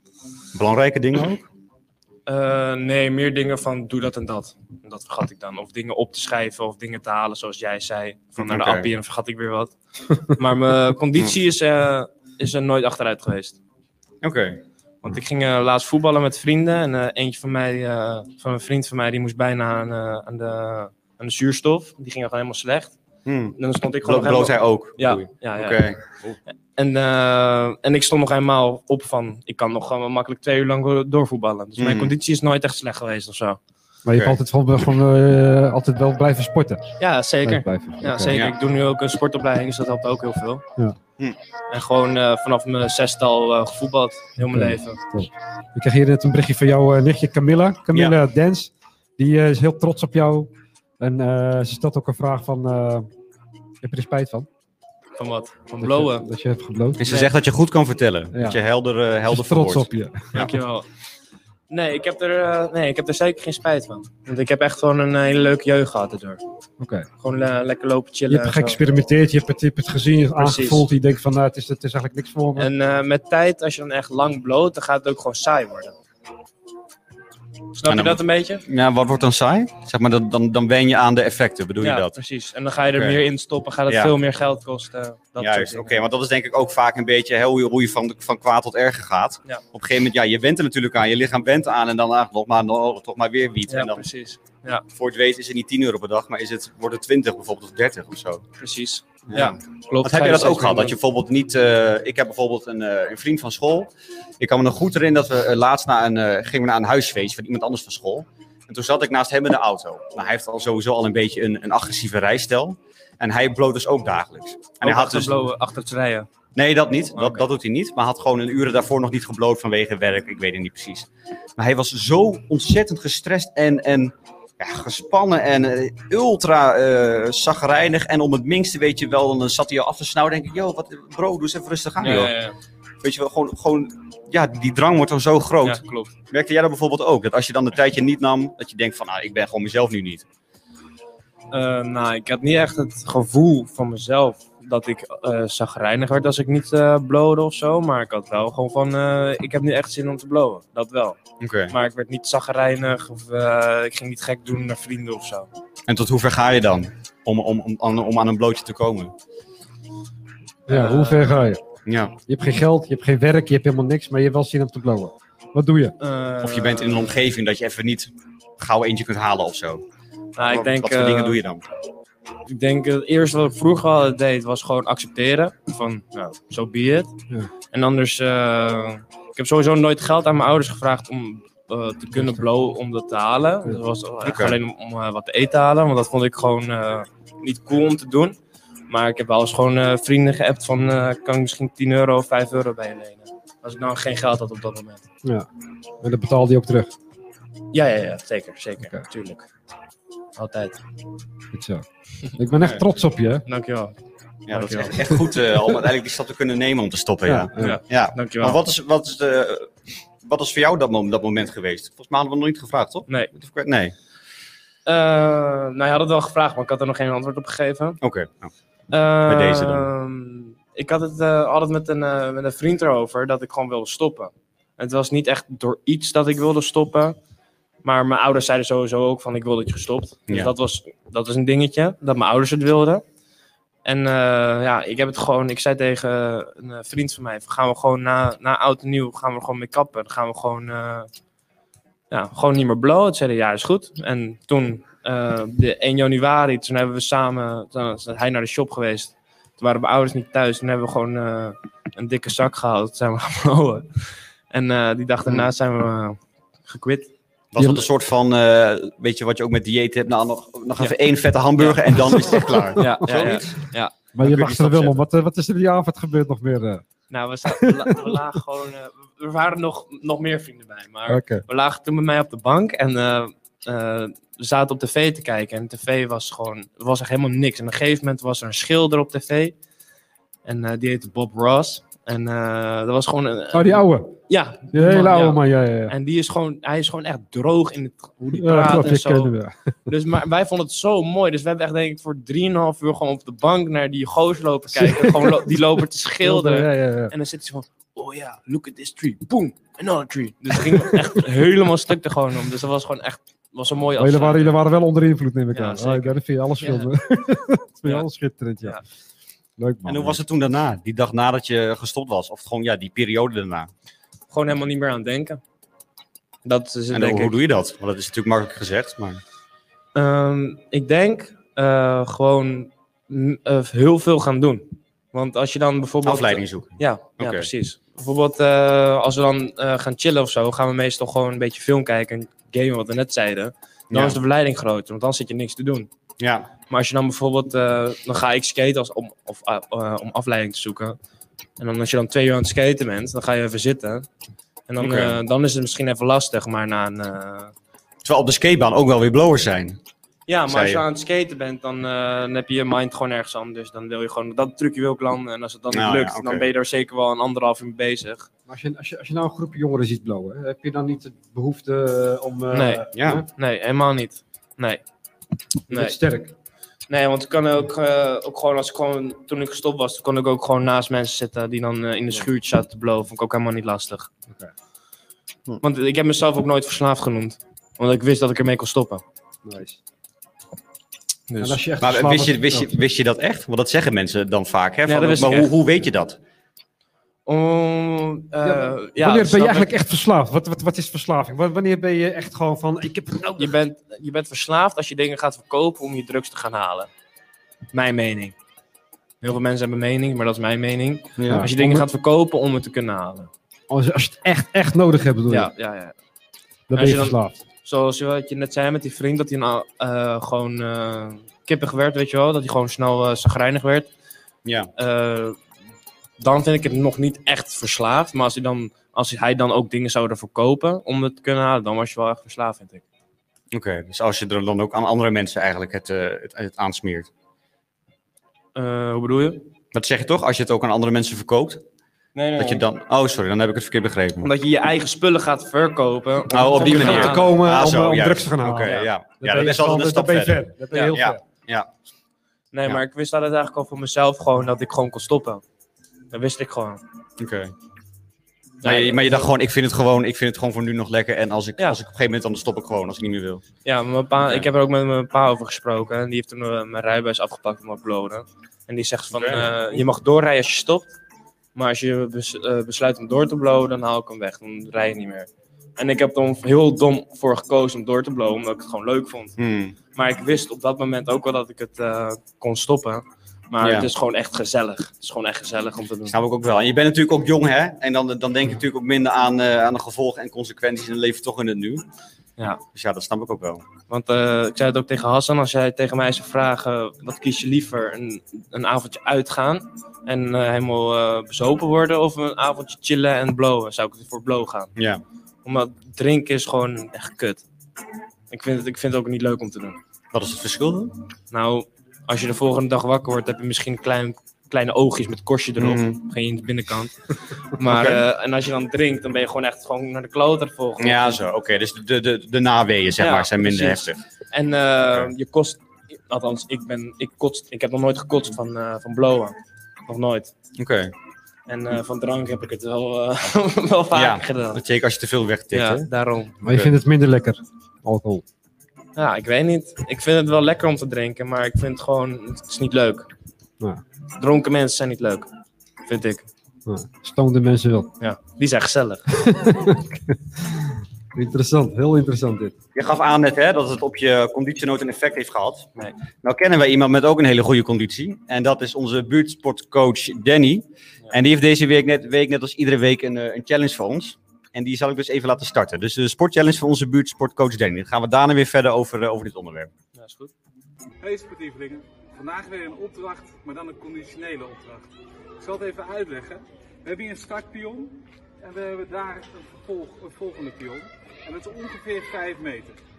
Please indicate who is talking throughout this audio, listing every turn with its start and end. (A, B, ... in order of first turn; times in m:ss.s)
0:00.6-0:01.4 A
0:02.3-0:13.6 B
0:08.4-0:08.9 A
0:14.2-0:14.6 A
0:15.0-0:23.0 B
0:23.3-0:26.4 A
0:23.6-0:25.8 B
0:26.8-0:33.6 B
0:31.8-0:32.1 A
0:34.1-0:38.4 C
0:37.0-0:40.6 B
0:41.7-0:45.0 B
0:44.5-0:53.1 C
0:53.8-0:54.5 C
0:55.2-0:56.3 B
0:55.8-0:57.0 C
0:57.0-1:00.5 A
0:57.1-0:57.3 B
0:58.3-0:58.6 C
0:59.3-1:00.5 C
1:00.3-1:00.9 B
1:01.7-1:06.4 B
1:06.8-1:07.1 C
1:07.2-1:08.8 B
1:08.3-1:12.7 C
1:10.4-1:10.8 B
1:12.6-1:16.0 B
1:17.7-1:18.6 B
1:17.9-1:22.2 A
1:21.8-1:26.0 B
1:22.9-1:23.2 A
1:23.9-1:24.1 A
1:25.4-1:34.0 A
1:33.7-1:34.8 B
1:34.9-1:38.4 A
1:38.6-1:40.9 B
1:39.3-1:55.4 A
1:54.8-1:56.3 B
1:56.6-2:01.1 A
1:57.2-1:57.4 B
2:01.6-2:12.3 A
2:12.0-2:12.6 B
2:13.0-2:20.2 A
2:15.6-2:16.1 B
2:21.5-2:31.2 B
2:31.4-2:31.7 A
2:31.7-2:35.5 B
2:35.9-2:39.1 A
2:40.7-2:41.6 C
2:40.7-2:41.4 B
2:41.9-2:42.2 A
2:42.3-2:46.0 C
2:46.0-2:47.2 B
2:46.4-2:49.8 A
2:50.4-2:51.4 B
2:50.4-2:51.6 A
2:52.5-2:57.1 B
2:57.7-3:08.4 B
3:04.2-3:04.6 A
3:08.9-3:15.0 B
3:16.0-3:16.9 C
3:17.7-3:19.5 B
3:20.4-3:20.8 B
3:21.5-3:23.4 C
3:23.5-3:24.0 B
3:24.5-3:33.9 A
3:24.5-3:25.1 B
3:27.3-3:27.8 C
3:27.6-3:28.6 B
3:34.9-3:38.0 B
3:38.0-3:38.5 A
3:38.9-3:47.2 B
3:39.3-3:39.9 A
3:47.8-3:53.0 B
3:53.8-4:01.1 B
4:02.1-4:17.1 B
4:17.5-4:25.0 A
4:17.6-4:17.9 C
4:21.6-4:24.0 B
4:22.2-4:23.3 C
4:24.2-4:26.8 C
4:27.1-4:39.6 B
4:27.5-4:28.2 C
4:31.1-4:31.4 C
4:40.4-4:49.3 B
4:43.5-4:44.2 C
4:44.7-4:45.9 C
4:48.3-4:49.7 C
4:49.9-5:04.6 B
4:54.8-4:55.6 C
4:56.2-4:57.1 C
5:04.0-5:08.8 C
5:05.5-5:06.9 B
5:09.6-5:10.2 C
5:09.8-5:13.7 A
5:14.3-5:15.4 B
5:16.4-5:17.3 B
5:16.9-5:19.2 A
5:20.0-5:35.9 B
5:26.0-5:27.5 A
5:33.9-5:34.2 A
5:36.2-5:36.5 A
5:36.7-5:41.0 B
5:41.6-5:44.1 B
5:44.7-5:47.5 B
5:44.8-5:45.2 A
5:48.0-5:49.8 A
5:50.3-5:58.3 B
5:50.5-5:50.8 A
5:55.7-5:56.5 A
5:58.5-6:03.3 C
6:02.5-6:04.8 B
6:03.0-6:03.2 A
6:05.7-6:06.0 B
6:05.7-6:06.3 C
6:06.9-6:14.1 B
6:15.6-6:19.0 B
6:19.4-6:19.8 C
6:21.3-6:21.6 B
6:21.4-6:22.7 C
6:21.8-6:26.2 A
6:24.9-6:25.5 B
6:27.3-6:29.7 B
6:28.4-6:33.6 C
6:33.4-6:36.9 B
6:37.7-6:38.4 B
6:39.2-6:43.3 B
6:41.2-6:41.5 A
6:41.2-6:41.9 C
6:43.7-6:45.5 C
6:45.3-6:46.0 B
6:46.7-6:47.4 C
6:46.7-6:53.9 B
6:54.4-6:54.7 A
6:54.8-6:55.4 B
6:56.2-7:02.8 B
7:03.5-7:07.1 A
7:08.6-7:09.4 B
7:09.7-7:11.6 A
7:12.2-7:12.6 B
7:12.4-7:14.3 A
7:14.2-7:17.4 B
7:16.3-7:21.7 A
7:16.6-7:21.2 C
7:22.5-7:25.4 B
7:26.1-7:26.8 B
7:27.2-7:27.5 A
7:28.6-7:29.2 B
7:28.6-7:33.4 A
7:33.6-7:40.9 B
7:39.1-7:39.5 A
7:41.6-7:49.4 B
7:49.4-7:49.8 A
7:49.9-7:56.2 B
7:53.6-7:53.9 A
7:56.1-8:01.8 A
8:02.7-8:03.6 A
8:03.9-8:14.7 B
8:14.8-8:15.0 A
8:15.4-8:17.4 B
8:18.3-8:19.8 B
8:20.1-8:20.9 A
8:21.3-8:31.2 B
8:25.6-8:26.0 A
8:27.6-8:28.0 A
8:30.8-8:34.0 A
8:33.0-8:39.4 B
8:39.9-8:40.3 B
8:40.6-8:40.9 A
8:41.5-8:44.6 B
8:43.9-8:45.9 A
8:45.5-8:46.4 B
8:46.4-8:48.2 C
8:46.5-8:46.7 A
8:49.0-8:53.1 B
8:54.2-8:55.3 B
8:55.9-8:56.3 B
8:56.7-8:57.9 C
8:58.0-8:59.2 B
8:59.1-9:02.6 C
9:02.8-9:05.7 A
9:06.2-9:19.7 A
9:19.9-9:20.3 B
9:21.0-9:24.9 D
9:25.4-9:32.8 D